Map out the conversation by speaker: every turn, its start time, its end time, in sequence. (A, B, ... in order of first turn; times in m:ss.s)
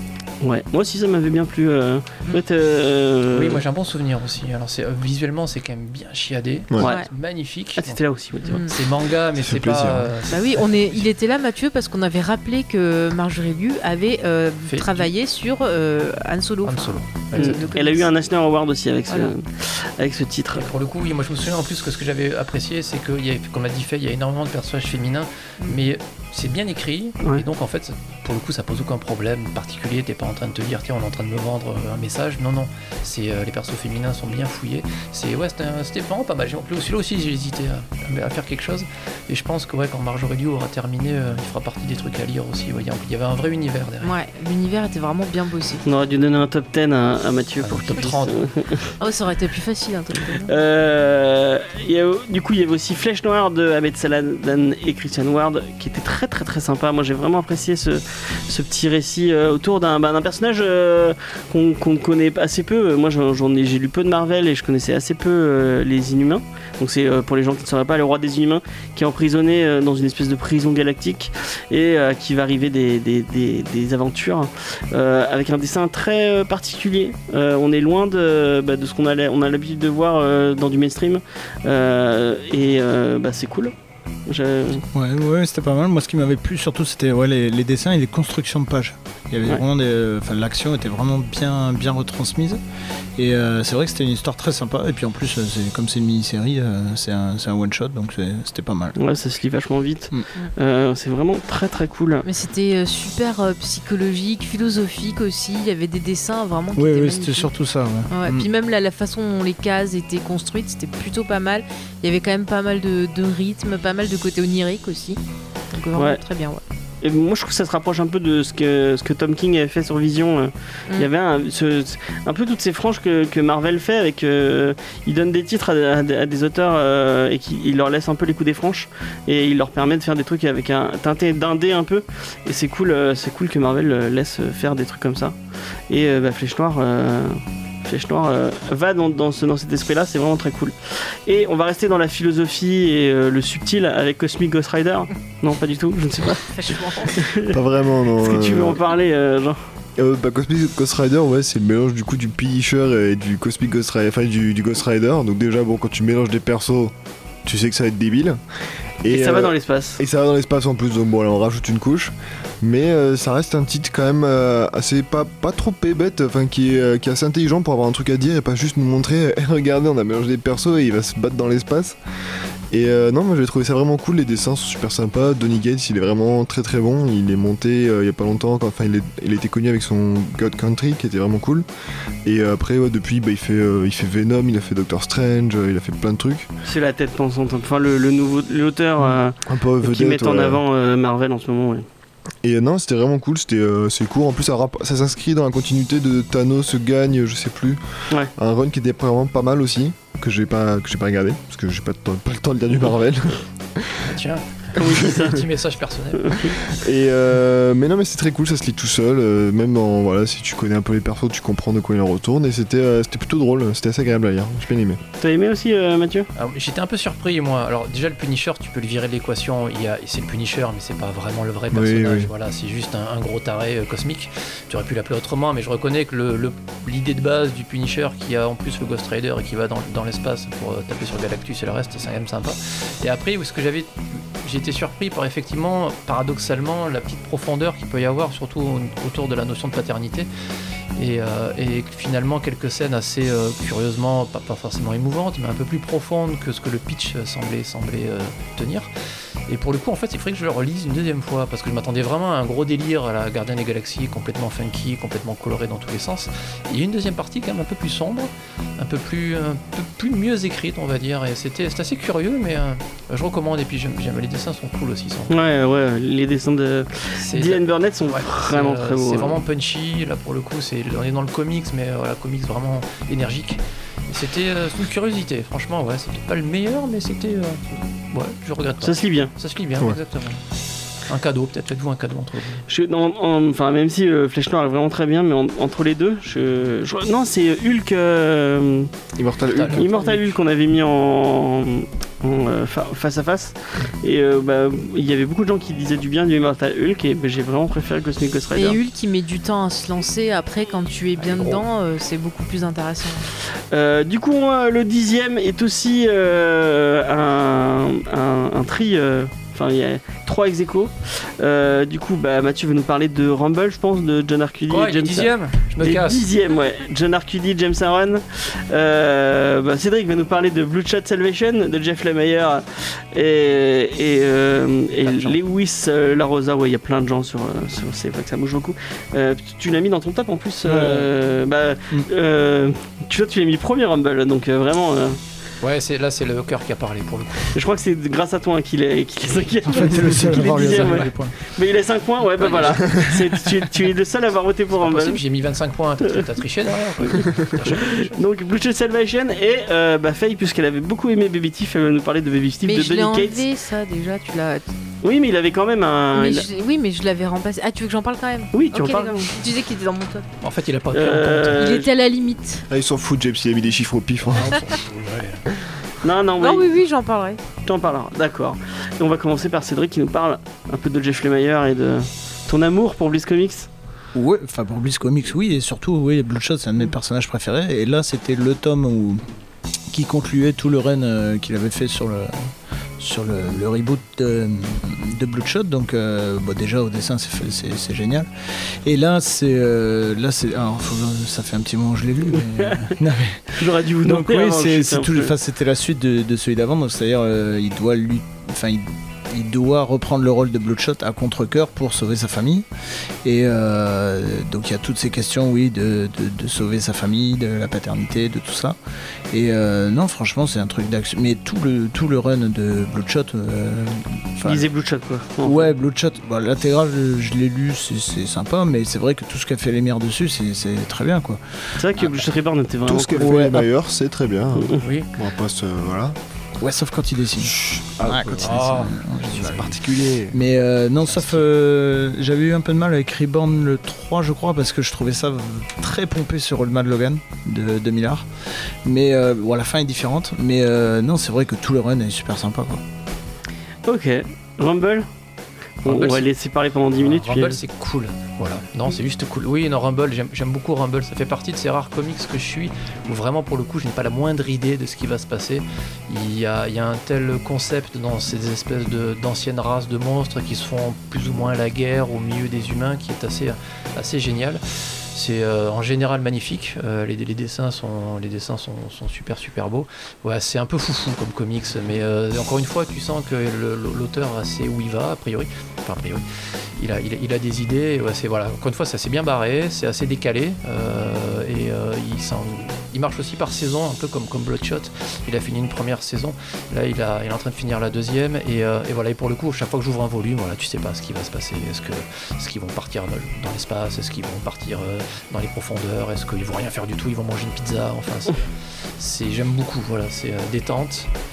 0:00.4-0:03.6 A
0:03.3-0:08.0 B
0:06.8-0:07.1 C
0:06.8-0:07.1 A
0:07.8-0:08.6 A
0:08.5-0:08.7 C
0:08.6-0:11.0 B
0:09.4-0:10.1 D
0:10.3-0:18.1 C
0:14.6-0:15.1 B
0:16.6-0:17.8 B
0:17.3-0:20.7 A
0:20.5-0:44.1 B
0:44.0-0:45.8 C
0:45.8-0:48.9 A
0:47.6-0:48.4 B
0:49.0-0:50.5 C
0:50.4-1:23.7 A
1:24.3-1:24.8 A
1:24.9-1:32.6 E
1:33.2-1:39.0 E
1:39.0-1:42.2 A
1:42.2-1:47.5 C
1:46.8-1:48.5 E
1:48.1-1:55.2 C
1:55.7-1:56.6 C
1:55.9-1:56.2 A
1:57.0-2:15.3 A
2:15.9-2:20.7 A
2:21.2-2:27.6 A
2:26.5-2:27.2 C
2:27.5-2:28.8 D
2:28.2-2:29.6 A
2:30.0-2:36.9 D
2:37.4-2:38.4 D
2:39.0-2:52.0 D
2:39.1-2:40.0 A
2:52.7-3:01.6 D
3:02.2-3:06.5 D
3:06.6-3:11.8 A
3:09.4-3:10.6 D
3:12.4-3:17.8 D
3:18.4-3:23.9 D
3:24.0-3:26.4 B
3:24.8-3:25.4 A
3:26.2-3:26.6 A
3:26.7-3:35.0 D
3:35.2-3:36.3 A
3:36.4-4:00.3 B
3:41.7-3:42.3 D
4:01.0-4:08.9 B
4:09.5-4:25.3 B
4:25.3-4:29.4 A
4:27.2-4:40.4 B
4:38.8-4:39.3 A
4:41.1-4:42.6 B
4:42.7-4:48.9 A
4:49.2-4:49.9 D
4:49.4-4:50.4 B
4:49.7-4:58.8 A
4:58.5-5:03.2 C
5:01.2-5:01.6 B
5:03.7-5:35.2 A
5:14.7-5:16.3 B
5:25.0-5:25.4 B
5:30.6-5:31.1 E
5:35.6-5:37.5 B
5:37.5-5:45.2 A
5:39.7-5:41.3 E
5:40.5-5:41.1 B
5:42.4-5:42.8 B
5:44.7-5:48.2 B
5:47.1-5:53.4 A
5:52.6-5:54.7 C
5:55.0-5:56.5 A
5:56.1-6:00.3 C
5:58.5-5:59.3 A
6:00.4-6:01.8 B
6:00.9-6:01.9 A
6:01.5-6:02.6 C
6:02.7-6:04.7 D
6:04.3-6:05.4 B
6:06.0-6:06.7 A
6:06.4-6:07.4 C
6:07.6-6:13.7 A
6:14.1-6:19.2 E
6:19.9-6:22.3 E
6:23.0-6:28.3 E
6:28.8-6:42.6 E
6:33.6-6:35.3 A
6:43.2-6:48.8 E
6:49.3-6:54.6 E
6:54.4-6:55.7 A
6:55.4-7:02.2 E
7:01.8-7:03.4 A
7:02.8-7:06.2 D
7:03.2-7:03.7 E
7:04.6-7:04.8 A
7:04.8-7:05.1 B
7:06.6-7:18.3 E
7:07.4-7:08.7 D
7:08.4-7:08.9 B
7:09.3-7:10.4 D
7:11.1-7:11.4 B
7:18.8-7:22.8 E
7:23.8-7:25.0 A
7:25.8-7:27.6 A
7:25.8-7:26.3 B
7:26.9-7:44.6 B
7:45.1-7:56.2 B
7:56.8-8:21.1 B